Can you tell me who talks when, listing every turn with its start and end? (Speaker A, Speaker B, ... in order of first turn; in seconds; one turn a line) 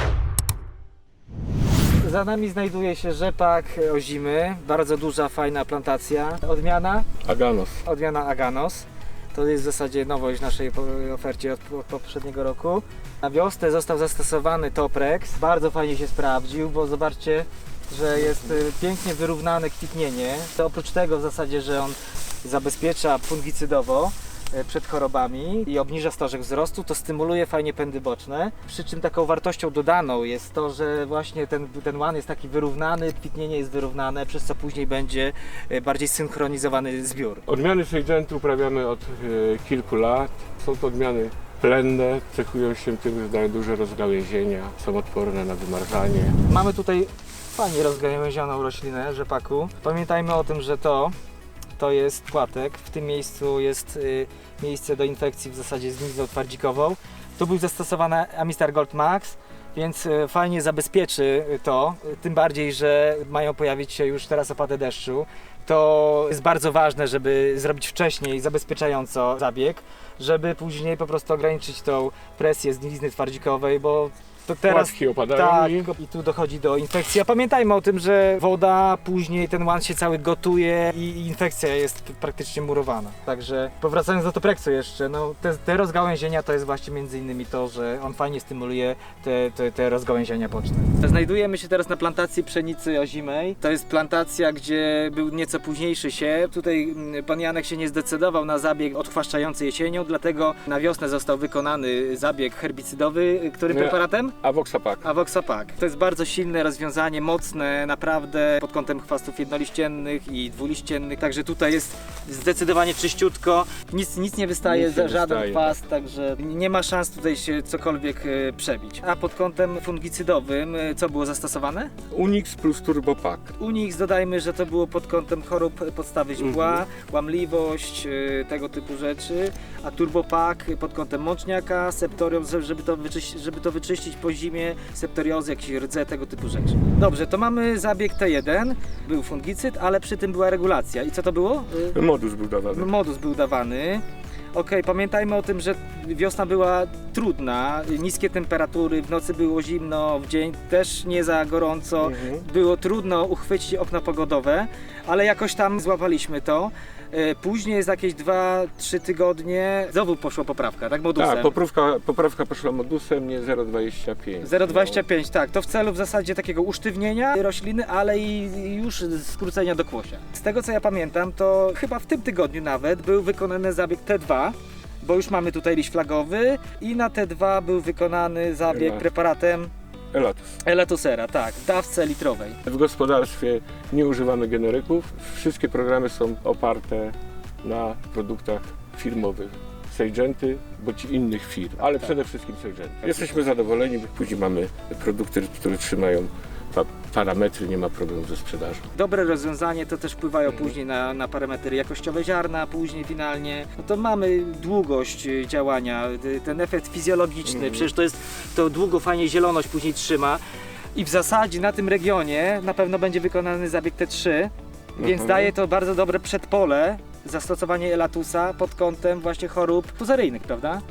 Speaker A: 2.0-7.1
Speaker B: 7.2-7.8
Speaker A: 7.8-37.5
Speaker B: 37.5-46.4
Speaker A: 46.5-51.1
Speaker A: 51.8-104.3
Speaker B: 74.7-75.9
Speaker B: 103.7-105.0
Speaker A: 105.0-121.9
Speaker B: 114.6-115.8
Speaker B: 122.1-123.5
Speaker A: 123.6-142.0
Speaker B: 126.4-126.8
Speaker B: 141.9-142.9
Speaker A: 142.7-161.5
Speaker B: 152.0-152.4
Speaker B: 161.2-165.0
Speaker A: 164.4-179.7
Speaker B: 178.7-179.0
Speaker B: 180.1-180.5
Speaker A: 180.6-182.6
Speaker B: 182.6-198.9
Speaker A: 193.0-193.4
Speaker A: 198.9-210.4
Speaker B: 207.5-207.9
Speaker A: 210.9-220.8
Speaker B: 215.0-215.5